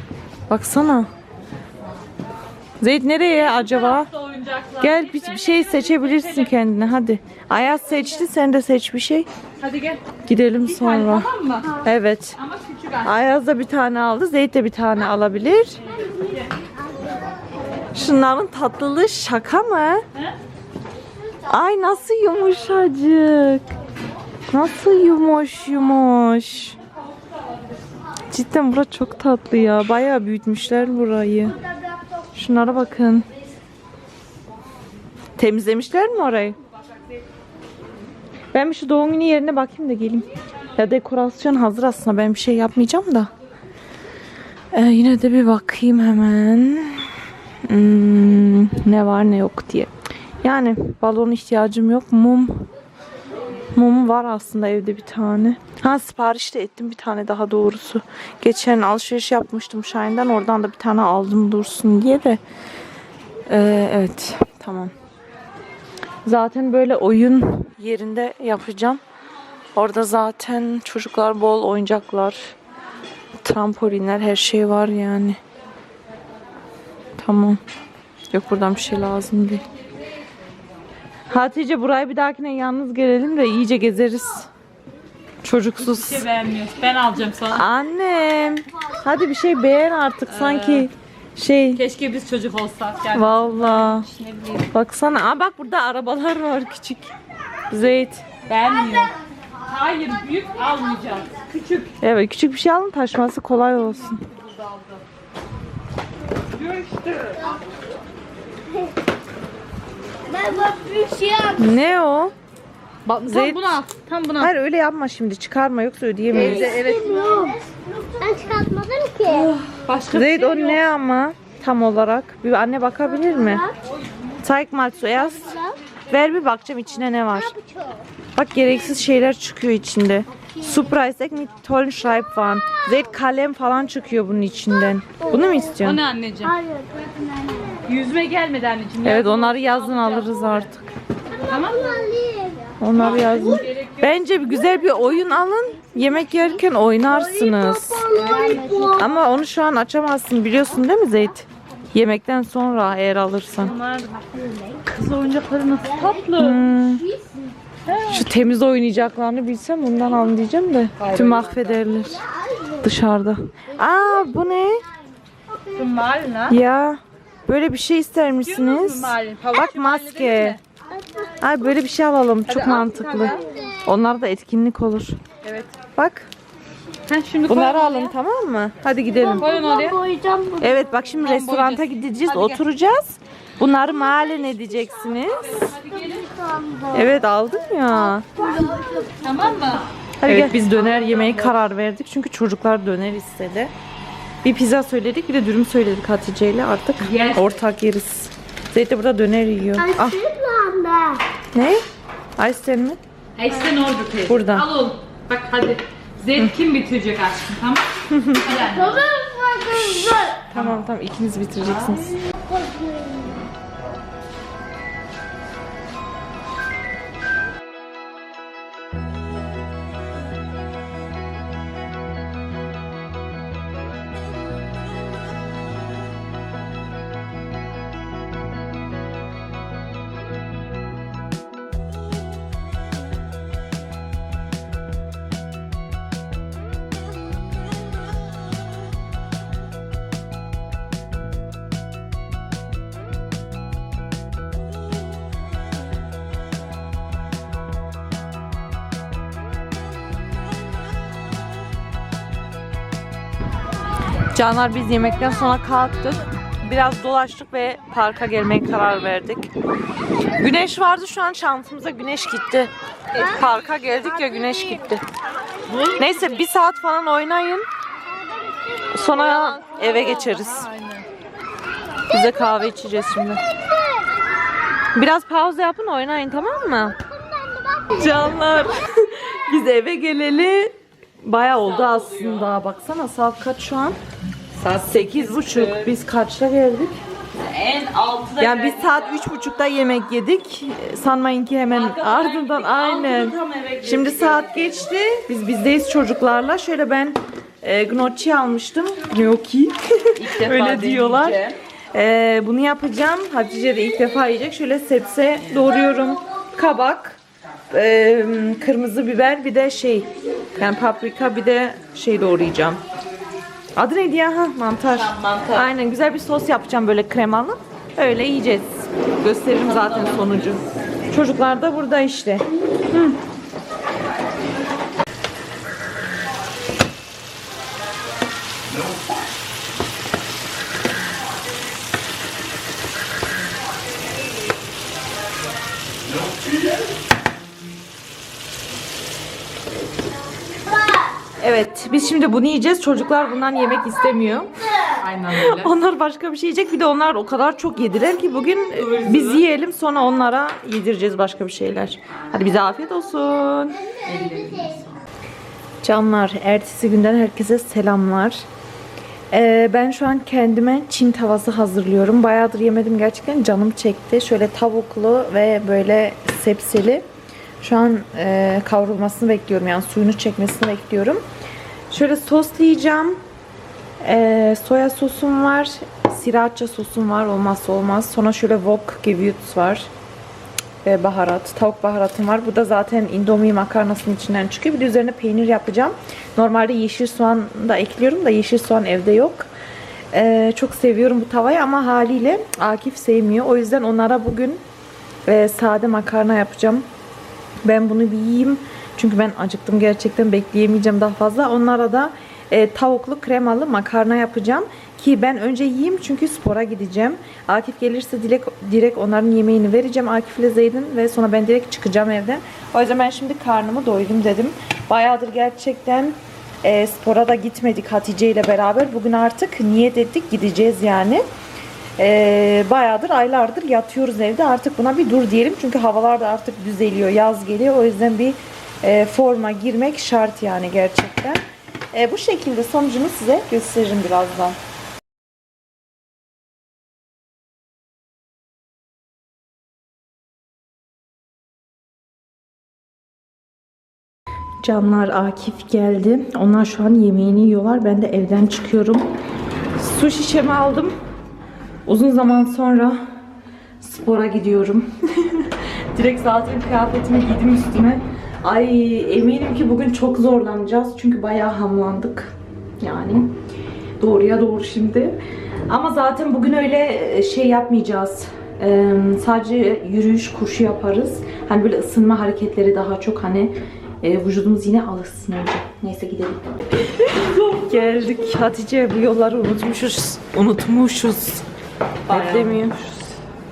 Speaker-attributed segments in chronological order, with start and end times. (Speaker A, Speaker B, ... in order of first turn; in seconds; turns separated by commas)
Speaker A: 0.5-1.1, Speaker A: 2.8-4.1, Speaker B: 3.5-6.4, Speaker A: 4.8-9.3, Speaker B: 9.6-10.0, Speaker A: 10.2-12.4, Speaker B: 10.6-11.7, Speaker B: 12.4-13.1, Speaker A: 13.0-15.8, Speaker A: 17.9-20.0, Speaker A: 21.5-23.7, Speaker A: 24.5-26.8, Speaker A: 28.3-31.6, Speaker A: 32.3-33.3, Speaker A: 35.4-36.6, Speaker A: 38.5-43.3, Speaker A: 44.7-47.1, Speaker A: 47.6-49.9, Speaker A: 50.4-52.7, Speaker A: 53.7-62.4, Speaker A: 63.5-64.9, Speaker A: 66.2-69.0, Speaker A: 69.7-72.5, Speaker A: 73.4-75.4, Speaker A: 77.2-77.6, Speaker A: 78.3-79.6, Speaker A: 81.3-84.5, Speaker A: 85.4-86.3, Speaker B: 85.8-87.6, Speaker A: 87.5-91.8, Speaker B: 90.3-90.8, Speaker B: 91.8-94.6, Speaker A: 93.1-94.1, Speaker A: 94.7-97.1, Speaker A: 97.7-98.3, Speaker B: 98.4-99.1, Speaker B: 99.7-101.9, Speaker A: 102.0-104.2, Speaker B: 104.4-105.0, Speaker B: 106.5-107.5, Speaker C: 110.3-111.5, Speaker A: 111.5-112.3, Speaker B: 113.0-114.5, Speaker A: 113.2-113.8, Speaker A: 114.4-116.8, Speaker B: 116.3-117.5, Speaker C: 116.8-119.1, Speaker B: 119.2-120.8, Speaker A: 120.1-123.7, Speaker A: 124.4-127.6, Speaker A: 128.3-136.0, Speaker B: 135.8-136.7, Speaker C: 136.7-137.8, Speaker B: 137.8-140.5, Speaker A: 139.0-140.9, Speaker B: 141.4-142.1, Speaker C: 142.0-142.6, Speaker A: 142.8-148.1, Speaker B: 143.0-144.0, Speaker B: 148.1-149.0, Speaker C: 148.2-148.9, Speaker A: 148.9-153.8, Speaker B: 153.7-156.7, Speaker C: 154.5-154.8, Speaker A: 156.4-157.2, Speaker A: 158.0-164.9, Speaker B: 161.0-161.8, Speaker B: 165.7-166.6, Speaker A: 166.5-170.6, Speaker B: 168.4-170.6, Speaker A: 171.4-175.2, Speaker B: 172.5-173.4, Speaker B: 175.4-175.7, Speaker A: 175.9-176.3, Speaker B: 177.1-178.1, Speaker A: 177.5-179.5, Speaker B: 179.3-180.1, Speaker C: 180.0-180.4, Speaker A: 180.5-185.7, Speaker B: 181.2-182.6, Speaker B: 185.4-186.5, Speaker C: 186.4-186.8, Speaker A: 186.9-188.6, Speaker C: 188.6-189.2, Speaker B: 189.1-189.9, Speaker A: 190.2-193.7, Speaker B: 190.8-191.3, Speaker A: 194.4-200.4, Speaker B: 197.0-197.6, Speaker C: 200.4-201.2, Speaker A: 201.5-201.8, Speaker A: 202.4-203.0, Speaker B: 203.3-209.2, Speaker A: 204.2-204.7, Speaker A: 208.1-208.4, Speaker C: 209.2-209.5, Speaker A: 209.6-212.2, Speaker B: 210.5-210.8, Speaker C: 212.5-213.3, Speaker A: 254.3-259.5, Speaker A: 260.4-265.0, Speaker B: 265.7-266.2, Speaker A: 265.9-267.6, Speaker A: 268.9-270.7, Speaker B: 270.1-271.1, Speaker A: 272.1-273.4, Speaker A: 274.9-277.0, Speaker A: 277.9-284.0, Speaker B: 284.6-285.9, Speaker A: 284.7-287.0, Speaker B: 287.4-289.0, Speaker A: 288.4-307.2, Speaker B: 291.7-294.9, Speaker B: 300.2-301.6, Speaker A: 307.7-312.8, Speaker A: 313.8-323.2, Speaker B: 315.1-315.5, Speaker A: 341.4-344.5, Speaker B: 345.0-345.7, Speaker A: 345.2-354.0, Speaker B: 348.9-349.4, Speaker B: 354.0-354.9, Speaker A: 355.8-358.4, Speaker A: 359.3-367.0, Speaker A: 367.6-371.2, Speaker A: 371.9-373.2, Speaker A: 374.0-379.9, Speaker A: 380.8-389.5, Speaker A: 390.1-394.6, Speaker A: 395.2-396.9, Speaker A: 397.6-421.2, Speaker A: 422.0-431.4, Speaker A: 431.9-434.6, Speaker A: 444.6-449.1, Speaker A: 449.8-450.9, Speaker A: 451.9-453.0, Speaker A: 453.8-463.4, Speaker A: 464.0-465.2, Speaker A: 465.7-481.4, Speaker B: 482.1-482.6, Speaker A: 482.1-482.9